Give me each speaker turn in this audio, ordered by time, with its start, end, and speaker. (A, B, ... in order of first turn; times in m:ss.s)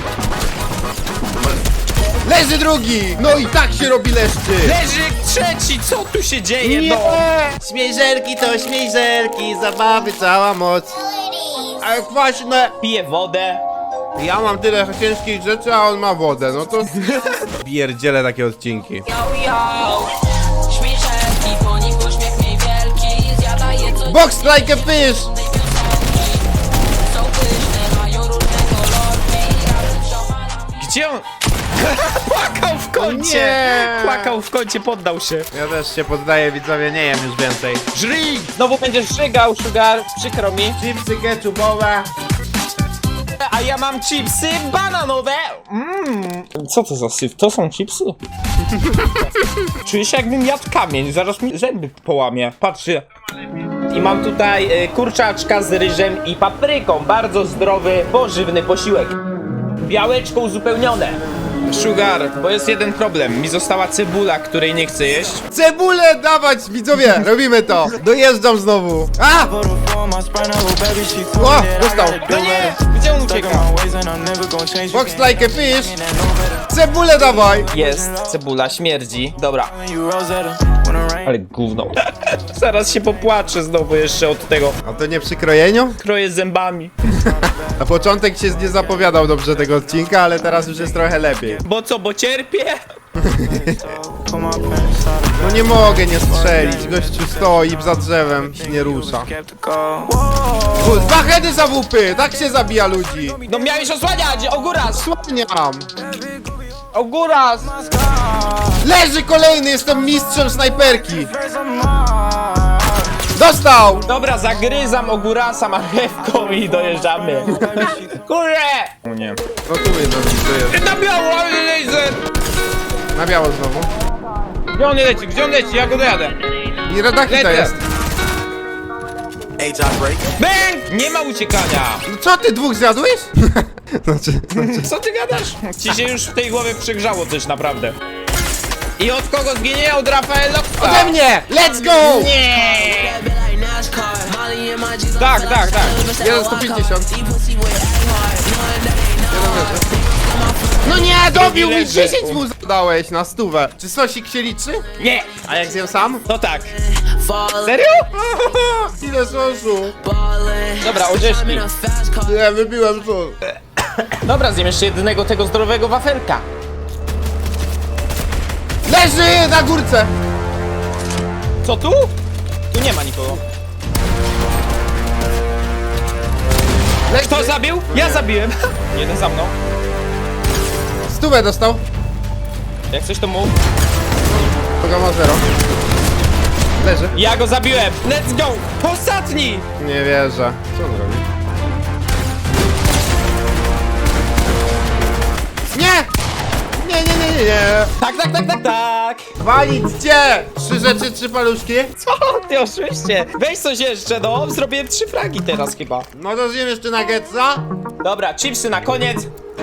0:02.2-0:04.8 A
0:04.6-0:07.2 B
0:06.6-0:11.0 A
0:11.6-0:12.7 A
0:12.8-0:13.6 B
0:14.2-0:17.0 A
0:17.6-0:19.1 A
0:19.1-0:24.3 C
0:24.0-0:25.4 A
0:25.5-0:26.4 C
0:27.1-0:30.6 C
0:30.8-0:31.2 B
0:31.8-0:35.5 B
0:33.0-0:34.4 A
0:35.5-0:37.8 A
0:37.9-0:40.8 B
0:40.8-0:42.1 A
0:43.4-0:48.2 B
0:49.0-0:49.3 B
0:49.8-0:53.1 B
0:53.9-0:59.2 B
0:59.8-1:05.5 B
1:05.5-1:09.6 A
1:09.6-1:12.8 C
1:11.3-1:12.2 A
1:12.2-1:13.7 B
1:13.4-1:15.3 C
1:14.9-1:16.0 A
1:16.0-1:16.6 C
1:16.7-1:17.7 A
1:17.7-1:19.7 B
1:19.8-1:21.2 C
1:21.2-1:24.8 B
1:24.8-1:26.0 A
1:26.0-1:26.9 B
1:27.2-1:31.6 A
1:31.6-1:32.8 B
1:33.2-1:33.9 A
1:33.5-1:35.4 C
1:35.4-1:39.3 A
1:36.6-1:36.9 C
1:38.7-1:40.7 C
1:40.7-1:43.4 A
1:43.4-1:45.1 B
1:44.9-1:45.9 A
1:46.9-1:47.7 B
1:47.9-1:48.8 C
1:48.8-1:51.3 A
1:51.4-1:52.9 C
1:53.3-1:54.1 A
1:54.1-1:59.4 B
1:57.5-1:58.1 C
1:59.7-2:00.8 A
2:00.7-2:02.2 B
2:03.1-2:03.9 A
2:04.7-2:06.4 B
2:06.9-2:07.8 A
2:07.2-2:07.8 B
2:09.6-2:10.2 C
2:10.4-2:12.0 B
2:12.1-2:14.9 A
2:14.6-2:18.0 B
2:19.0-2:21.2 B
2:20.8-2:22.3 A
2:21.8-2:23.2 B
2:22.4-2:30.8 C
2:25.1-2:26.0 B
2:26.1-2:27.1 A
2:29.3-2:29.8 A
2:30.8-2:34.8 A
2:31.3-2:32.4 B
2:35.0-2:35.3 B
2:35.4-2:36.2 A
2:36.2-2:36.8 B
2:37.0-2:37.7 C
2:37.6-2:38.8 B
2:38.8-2:40.0 A
2:40.1-2:42.2 C
2:40.8-2:41.7 B
2:42.2-2:43.4 A
2:44.2-2:46.4 B
2:48.8-2:50.1 A
2:51.6-2:52.1 B
2:52.7-2:53.4 B
2:57.1-2:58.3 A
2:57.1-2:59.6 B
3:01.1-3:01.8 A
3:02.9-3:03.6 B
3:04.8-3:05.4 A
3:06.8-3:07.2 A
3:07.1-3:09.7 B
3:09.8-3:11.2 A
3:15.7-3:16.1 A
3:16.8-3:17.9 A
3:18.0-3:19.3 B
3:19.4-3:21.9 A
3:22.0-3:26.1 B
3:26.2-3:27.6 A
3:28.0-3:29.3 B